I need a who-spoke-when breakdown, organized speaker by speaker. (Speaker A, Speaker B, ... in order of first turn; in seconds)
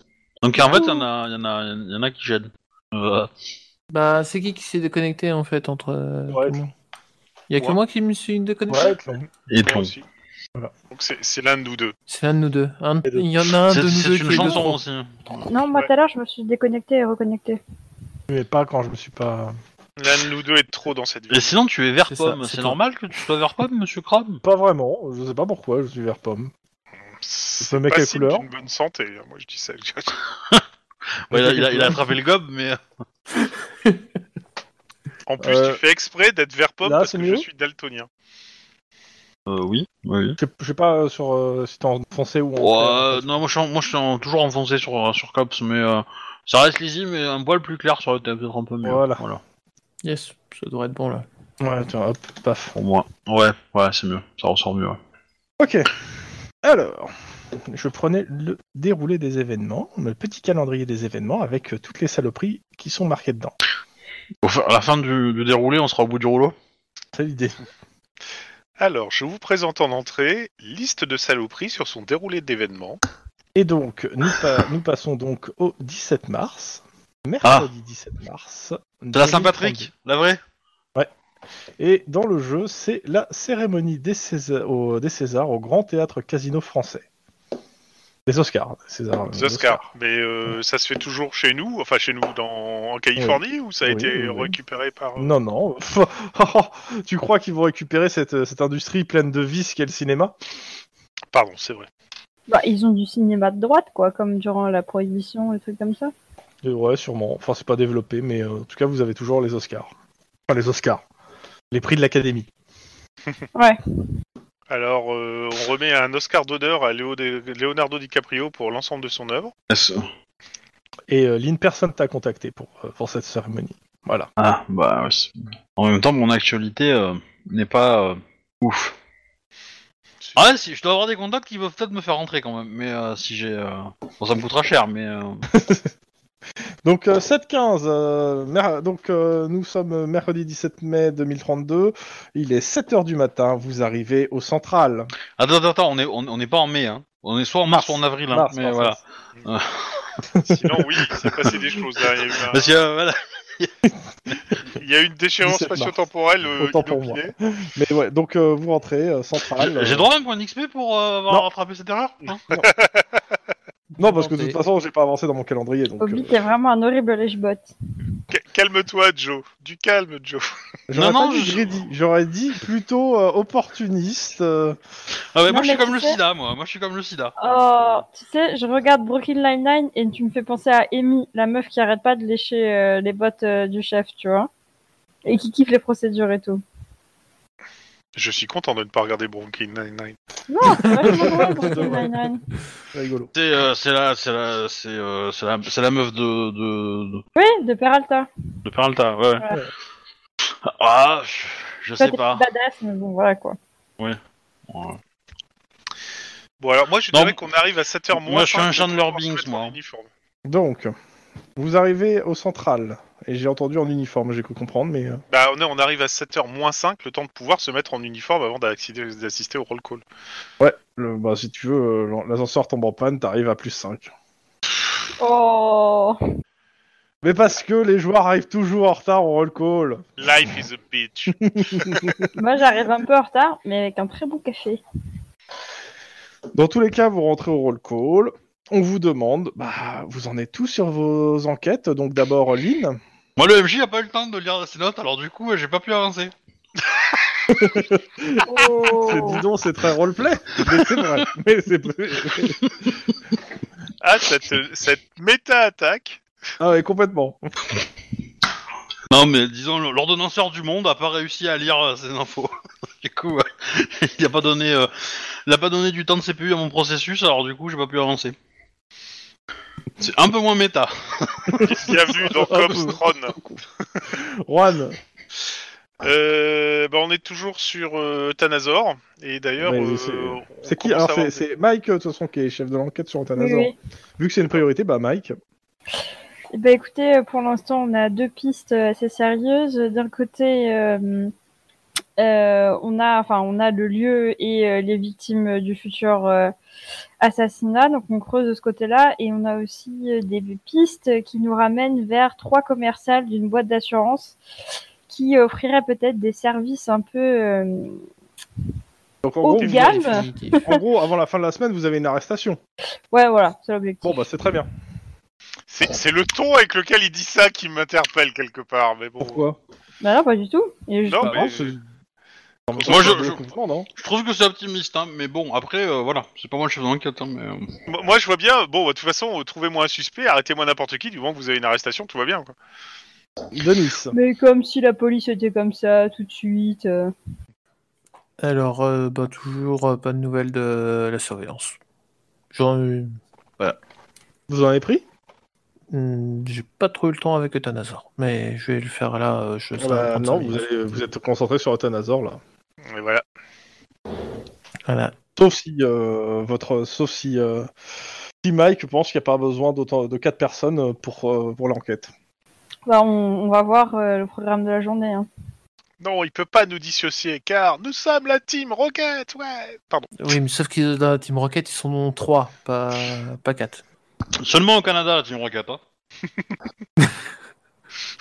Speaker A: 0.4-3.3, 9.5-9.9, 13.7-15.5, 21.3-24.4, 31.3-32.8, 39.5-40.4, 42.6-49.4, 52.8-55.0, 64.4-66.5, 77.4-77.7, 79.1-80.4, 119.7-120.1, 124.4-128.9, 130.4-135.5, 145.4-150.1, 152.5-153.7, 159.6-162.4, 170.9-171.7, 175.3-177.9, 193.3-197.2, 198.7-199.4, 200.6-202.4, 204.7-205.0, 207.1-207.4, 208.1-209.8, 243.4-246.3, 259.1-268.4, 270.0-271.9, 322.8-323.4, 324.0-327.7, 374.4-375.8
Speaker B: 3.9-6.7, 7.5-9.0, 12.1-14.8, 22.1-22.8, 50.0-51.3, 164.0-164.6, 191.1-191.9, 309.6-310.6, 338.4-341.8, 342.5-343.8, 345.9-350.6, 354.9-355.1, 370.2-373.8
Speaker C: 6.3-6.7, 8.7-9.3, 14.3-14.7, 18.3-19.6, 24.4-26.5, 27.6-28.4, 31.3-32.0, 35.4-35.8, 36.8-37.5, 40.4-43.3, 48.8-49.2, 51.6-52.7, 55.6-55.9, 56.6-57.1, 57.7-63.5, 67.1-67.5, 73.5-79.9, 81.8-87.0, 88.3-89.8, 93.2-94.5, 95.2-100.3, 106.6-109.9, 110.5-111.0, 111.7-112.5, 121.1-124.3, 135.5-135.9, 136.8-145.1, 148.3-149.0, 150.3-150.7, 155.4-156.0, 156.6-160.1, 164.0-166.4, 170.9-174.8, 191.1-192.1, 192.9-193.3, 210.5-210.9, 211.6-215.2, 220.6-224.1, 227.2-230.1, 231.4-232.3, 236.6-243.0, 247.5-252.6, 256.6-257.4, 271.5-275.0, 279.6-285.4, 309.2-312.6, 314.0-314.7, 319.2-319.6, 321.2-321.9, 322.7-323.9, 333.5-334.2, 344.5-345.0, 349.8-352.4, 355.4-357.7, 358.4-362.1
Speaker D: 9.6-10.1, 10.9-12.0, 20.0-21.6, 27.2-30.2, 35.3-38.1, 68.8-73.0, 89.3-95.3, 101.3-101.9, 114.7-119.5, 150.4-152.7, 154.7-157.3, 162.3-163.1, 168.3-170.5, 188.2-190.2, 206.6-210.1, 215.3-220.0, 230.2-232.3, 254.0-256.2, 271.6-273.4, 276.0-281.4, 315.7-319.4, 321.1-321.8, 322.7-323.3, 327.9-332.5, 352.9-353.2, 366.0-370.1
Speaker E: 15.5-17.6, 102.5-106.1, 166.0-167.7, 175.5-176.2, 177.4-184.5, 185.2-186.6, 190.5-192.4, 197.4-198.3, 202.0-203.6, 225.2-226.2, 232.3-234.8, 248.4-249.4, 283.4-283.7, 286.5-291.3, 292.2-296.5, 297.2-304.4, 305.1-308.1, 309.4-310.8, 313.1-314.2, 320.0-321.4, 334.1-337.1, 362.9-365.3